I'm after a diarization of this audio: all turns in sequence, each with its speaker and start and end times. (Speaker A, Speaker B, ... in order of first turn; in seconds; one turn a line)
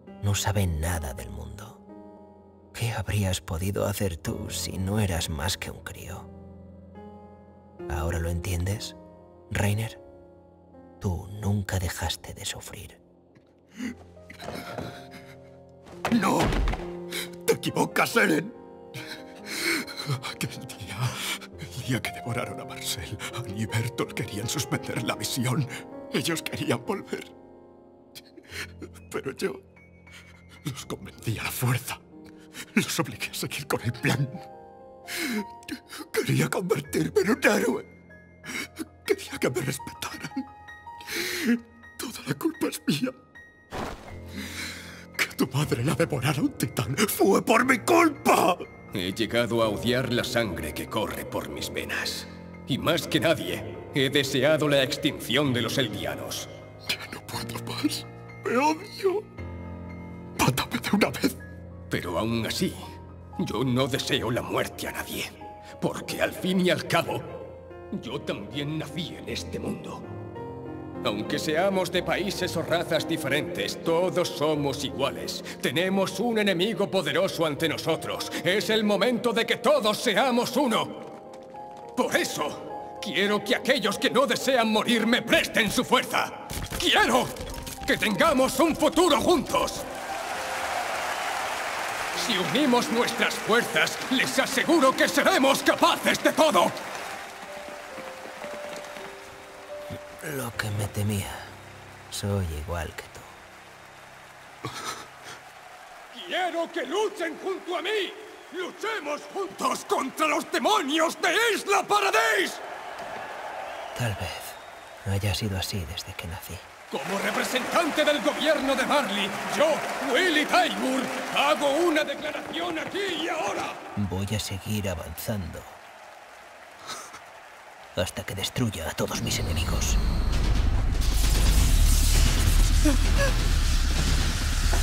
Speaker A: 0.2-1.8
Speaker A: 2.7-6.3
Speaker A: 7.9-9.0
Speaker A: 9.5-10.0
Speaker A: 11.0-13.0
Speaker B: 16.1-16.5
Speaker B: 17.4-18.6
Speaker B: 19.6-27.3
Speaker B: 29.1-29.6
Speaker B: 30.6-32.0
Speaker B: 32.7-34.5
Speaker B: 35.1-37.9
Speaker B: 39.0-40.5
Speaker B: 41.1-43.2
Speaker B: 45.2-48.7
Speaker C: 48.9-56.5
Speaker B: 56.9-59.2
Speaker B: 60.4-61.4
Speaker C: 61.9-67.4
Speaker C: 67.9-70.1
Speaker C: 71.0-81.0
Speaker C: 82.0-89.9
Speaker C: 92.2-96.8
Speaker A: 100.2-101.5
Speaker A: 102.1-103.4
Speaker C: 106.1-112.6
Speaker A: 114.0-116.7
Speaker C: 116.9-123.8
Speaker A: 124.0-125.8
Speaker A: 128.0-130.0